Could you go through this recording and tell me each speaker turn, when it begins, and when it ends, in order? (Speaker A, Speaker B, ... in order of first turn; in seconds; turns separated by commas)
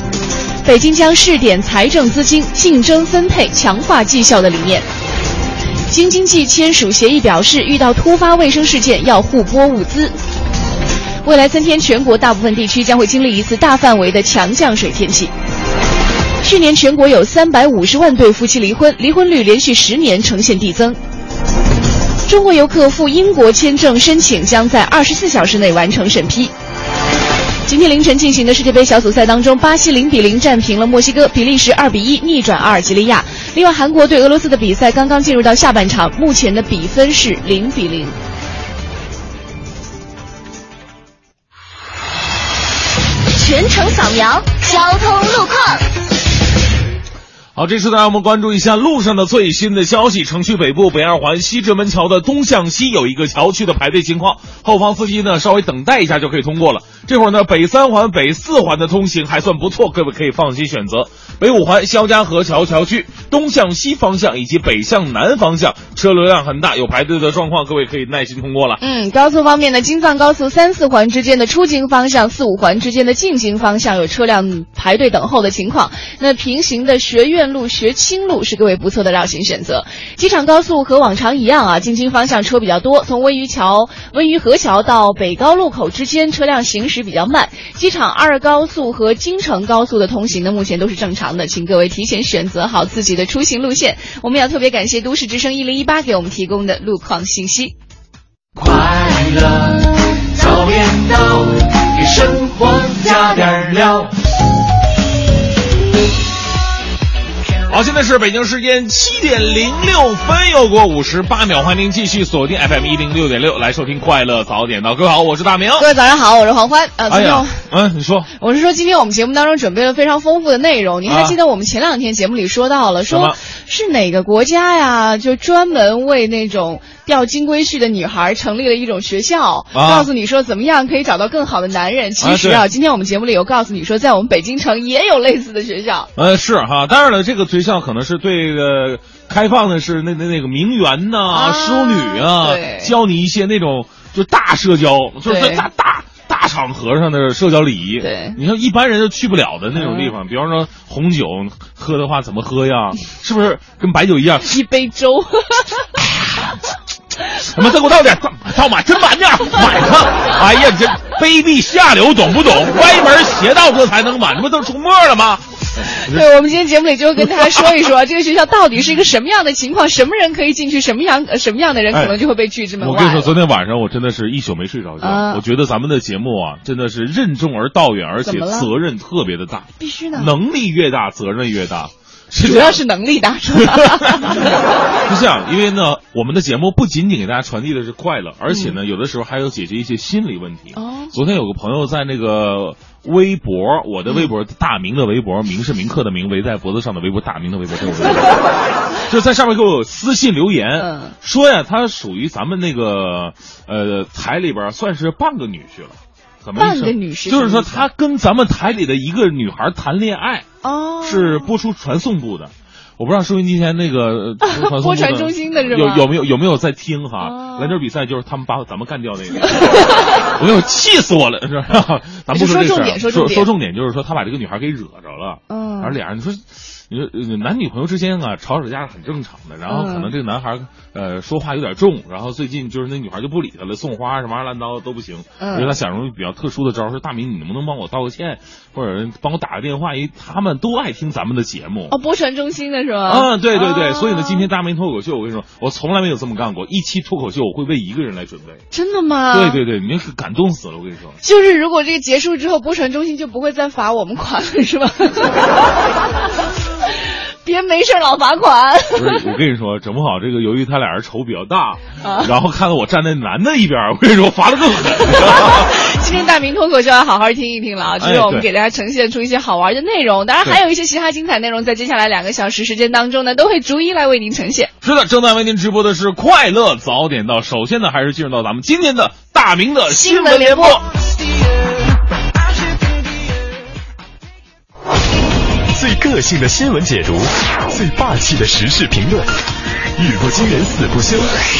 Speaker A: 0.6-4.8, Speaker A: 5.9-10.2, Speaker A: 11.2-15.3, Speaker A: 16.4-21.0, Speaker A: 22.3-26.5, Speaker A: 27.7-38.1, Speaker B: 43.4-45.8, Speaker C: 47.5-68.8, Speaker A: 68.8-97.7, Speaker D: 98.5-104.1, Speaker C: 107.7-115.9, Speaker A: 115.8-117.6, Speaker C: 117.1-118.3, Speaker A: 118.4-136.1, Speaker C: 121.1-121.3, Speaker C: 123.0-123.3, Speaker C: 129.7-130.1, Speaker C: 132.2-132.7, Speaker C: 136.2-154.5, Speaker A: 141.3-142.9, Speaker A: 145.2-145.7, Speaker A: 148.0-148.4, Speaker A: 149.8-150.1, Speaker A: 154.4-155.8, Speaker C: 157.4-166.2, Speaker A: 166.1-173.3, Speaker C: 172.8-182.8, Speaker A: 175.0-175.4, Speaker A: 178.2-178.7, Speaker A: 179.8-180.3, Speaker A: 182.4-184.5, Speaker C: 183.6-184.5, Speaker C: 185.1-198.5, Speaker A: 190.8-191.1, Speaker C: 199.1-210.4, Speaker A: 200.8-201.1, Speaker A: 206.6-207.8, Speaker A: 210.6-211.5, Speaker C: 211.0-241.9, Speaker A: 214.4-216.1, Speaker A: 217.2-217.8, Speaker A: 222.3-223.5, Speaker A: 225.5-225.9, Speaker A: 229.7-230.1, Speaker A: 235.4-235.7, Speaker A: 241.9-244.5, Speaker C: 243.1-248.6, Speaker A: 248.7-249.6, Speaker C: 249.3-251.2, Speaker A: 251.2-255.7, Speaker A: 257.4-259.2, Speaker C: 258.9-265.7, Speaker A: 262.0-262.3, Speaker A: 265.0-274.7, Speaker C: 268.0-268.4, Speaker C: 274.8-280.8, Speaker A: 279.9-280.8, Speaker E: 285.7-289.3, Speaker E: 290.0-291.3